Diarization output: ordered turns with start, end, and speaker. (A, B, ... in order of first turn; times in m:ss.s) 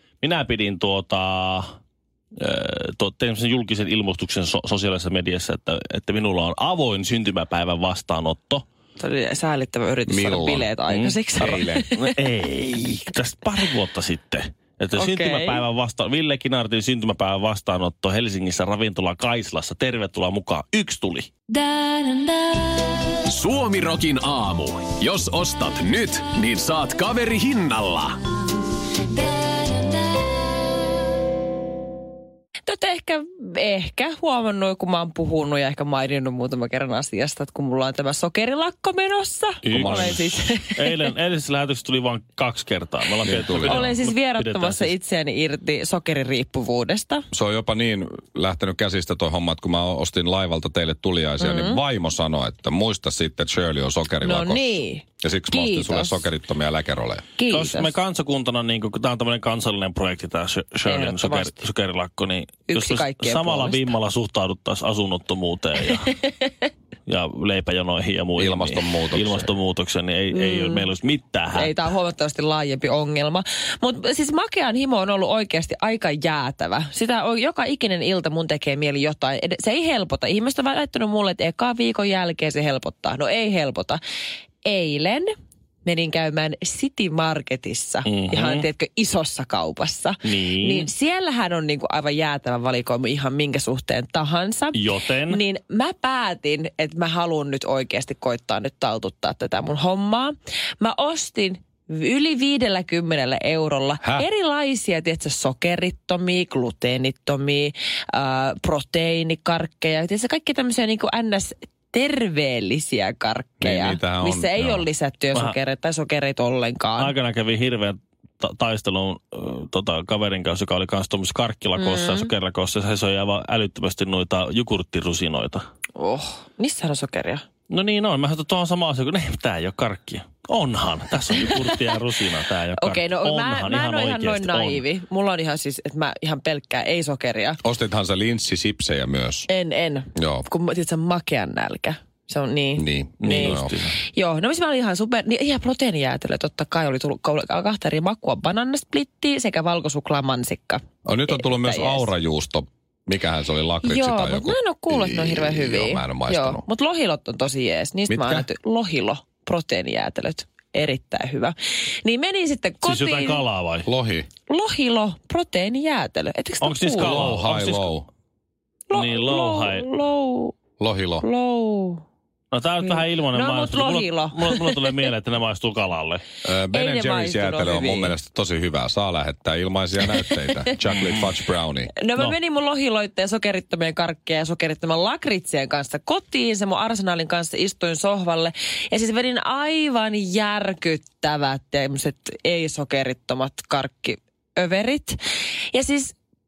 0:00.2-0:01.7 A
0:02.4-0:08.6 A
0:09.0-0:12.1 B
0:10.1-0:10.7 C
0:10.9-0:21.3 A
0:11.4-0:11.9 C
0:15.0-0:15.6 B
0:23.3-0:28.2 D
0:32.7-0:41.0 B
0:39.6-0:45.0 A
0:39.7-0:40.4 C
0:43.2-0:44.0 C
0:43.6-0:47.2 B
0:47.3-0:57.2 C
0:51.4-0:51.8 B
0:54.2-0:56.3 B
0:57.4-0:57.9 B
0:57.5-1:06.2 A
1:00.8-1:01.6 B
1:02.7-1:03.9 B
1:07.1-1:11.8 A
1:08.4-1:09.5 C
1:10.4-1:10.9 B
1:11.6-1:24.0 B
1:24.6-1:25.3 B
1:25.8-1:57.1 B
1:28.0-1:28.6 A
1:30.2-1:30.9 A
1:34.7-1:35.4 A
1:44.0-1:44.3 C
1:53.6-1:54.9 C
1:57.0-2:05.6 A
2:01.8-2:02.3 B
2:06.0-2:07.4 B
2:07.7-2:14.8 A
2:12.8-2:17.6 B
2:17.6-2:19.5 C
2:19.5-2:23.6 B
2:20.2-2:20.5 C
2:22.8-2:23.8 C
2:23.2-2:24.0 A
2:24.1-2:32.1 B
2:31.0-2:36.6 C
2:33.8-2:43.4 B
2:38.1-2:38.5 C
2:42.8-2:43.9 A
2:43.9-2:44.3 C
2:44.5-2:47.3 B
2:46.6-2:48.0 A
2:47.0-2:48.1 C
2:48.9-2:50.6 B
2:48.9-2:49.9 A
2:50.8-2:51.3 C
2:51.2-2:52.0 B
2:52.5-2:56.2 A
2:52.8-2:54.7 B
2:56.4-3:01.9 C
2:56.7-2:58.2 B
3:00.3-3:00.7 B
3:02.0-3:15.2 B
3:15.7-3:16.2 B